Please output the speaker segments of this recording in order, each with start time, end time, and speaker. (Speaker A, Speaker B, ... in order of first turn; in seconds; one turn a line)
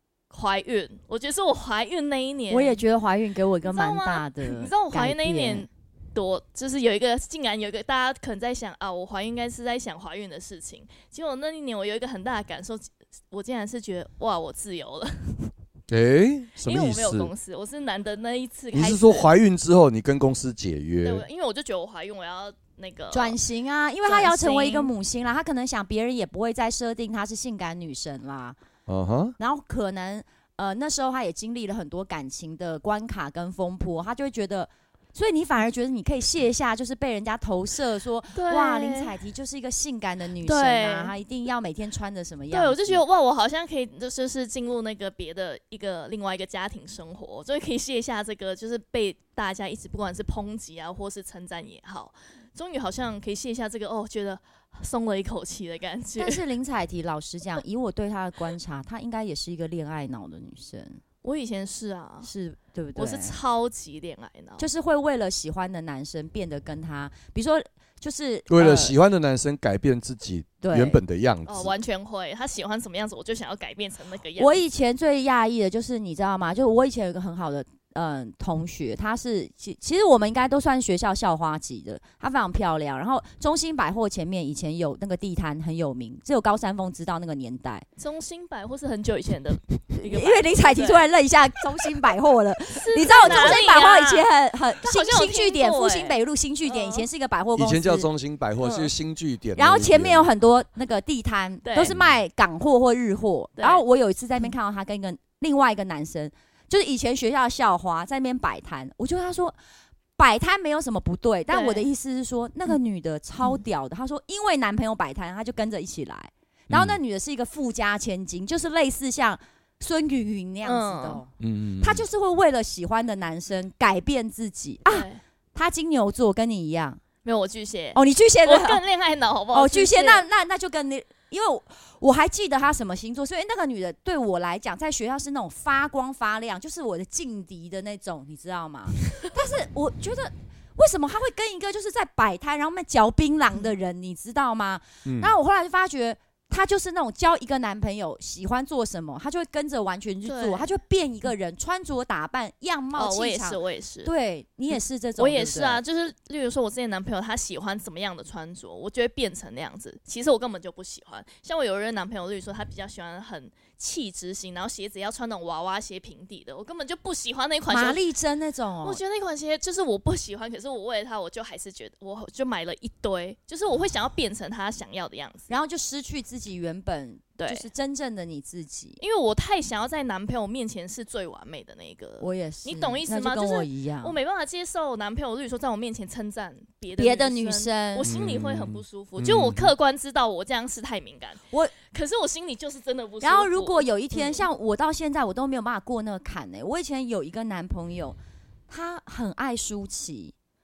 Speaker A: 0.3-2.8
Speaker B: 2.5-5.7
Speaker A: 3.6-15.5
Speaker C: 15.9-17.3
Speaker A: 16.6-19.3
Speaker C: 18.7-21.2
Speaker A: 21.0-23.4
Speaker B: 23.1-28.6
Speaker A: 24.1-24.9
Speaker C: 28.9-29.4
Speaker B: 29.4-43.0
Speaker A: 38.3-39.1
Speaker A: 40.5-41.1
Speaker A: 42.5-56.4
Speaker B: 56.2-61.0
Speaker A: 61.2-62.3
Speaker B: 62.2-63.4
Speaker A: 63.0-64.7
Speaker B: 64.6-69.0
Speaker C: 68.5-71.7
Speaker B: 70.6-71.0
Speaker A: 71.5-74.6
Speaker B: 74.4-87.9
Speaker A: 88.0-91.1
Speaker B: 90.0-98.1
Speaker A: 92.7-94.3
Speaker C: 93.3-93.5
Speaker A: 94.8-97.1
Speaker C: 97.6-100.3
Speaker A: 98.6-98.9
Speaker B: 99.6-109.6
Speaker A: 101.6-101.9
Speaker C: 101.9-102.1
Speaker A: 103.6-103.8
Speaker B: 110.2-127.0
Speaker A: 111.5-111.9
Speaker C: 116.7-117.0
Speaker A: 120.6-121.2
Speaker C: 121.4-122.0
Speaker A: 124.9-125.2
Speaker A: 127.2-130.2
Speaker B: 128.0-128.8
Speaker B: 129.5-155.8
Speaker C: 145.1-145.3
Speaker A: 150.2-150.7
Speaker A: 152.9-154.1
Speaker A: 154.7-168.0
Speaker B: 167.7-169.0
Speaker A: 168.8-175.5
Speaker B: 175.5-179.0
Speaker A: 177.4-177.7
Speaker A: 179.0-194.4
Speaker B: 182.2-184.2
Speaker B: 187.0-188.1
Speaker C: 188.1-189.7
Speaker B: 193.2-198.2
Speaker B: 198.7-200.3